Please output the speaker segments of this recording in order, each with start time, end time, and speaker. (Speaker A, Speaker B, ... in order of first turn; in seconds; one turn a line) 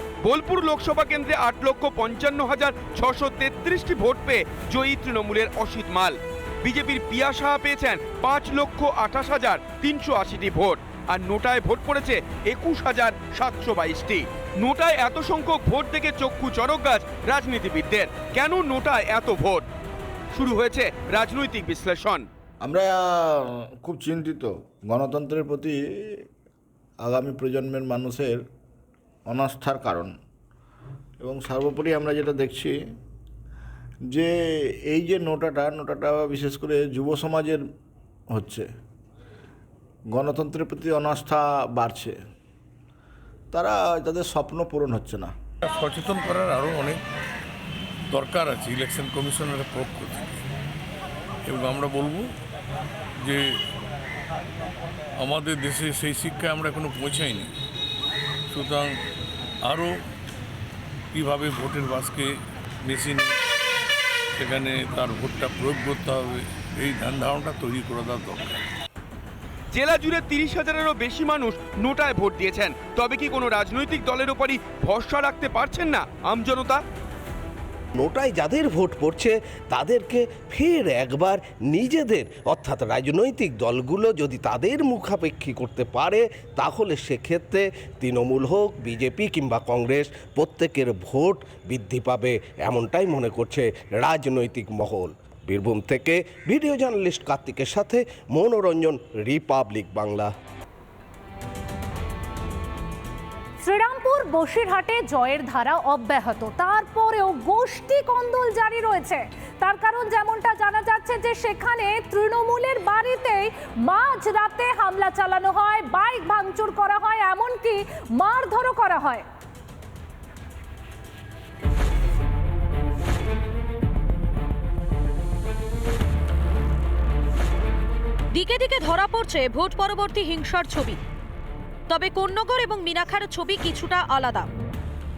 Speaker A: 0.2-19.6
Speaker A: 20.3-22.3
Speaker B: 22.6-23.3
Speaker B: 23.8-25.8
Speaker B: 27.0-28.4
Speaker B: 29.3-30.1
Speaker B: 31.2-32.7
Speaker B: 34.9-37.6
Speaker B: 38.3-38.7
Speaker B: 40.1-42.1
Speaker B: 43.5-45.3
Speaker C: 45.6-47.0
Speaker C: 48.1-50.4
Speaker C: 51.5-52.3
Speaker C: 55.2-57.5
Speaker C: 58.5-58.9
Speaker C: 59.6-59.9
Speaker C: 61.1-62.3
Speaker C: 62.8-63.3
Speaker C: 64.4-68.6
Speaker A: 69.7-76.8
Speaker D: 78.0-100.3
Speaker E: 103.6-119.2
Speaker F: 128.3-131.0
Speaker F: 131.9-134.5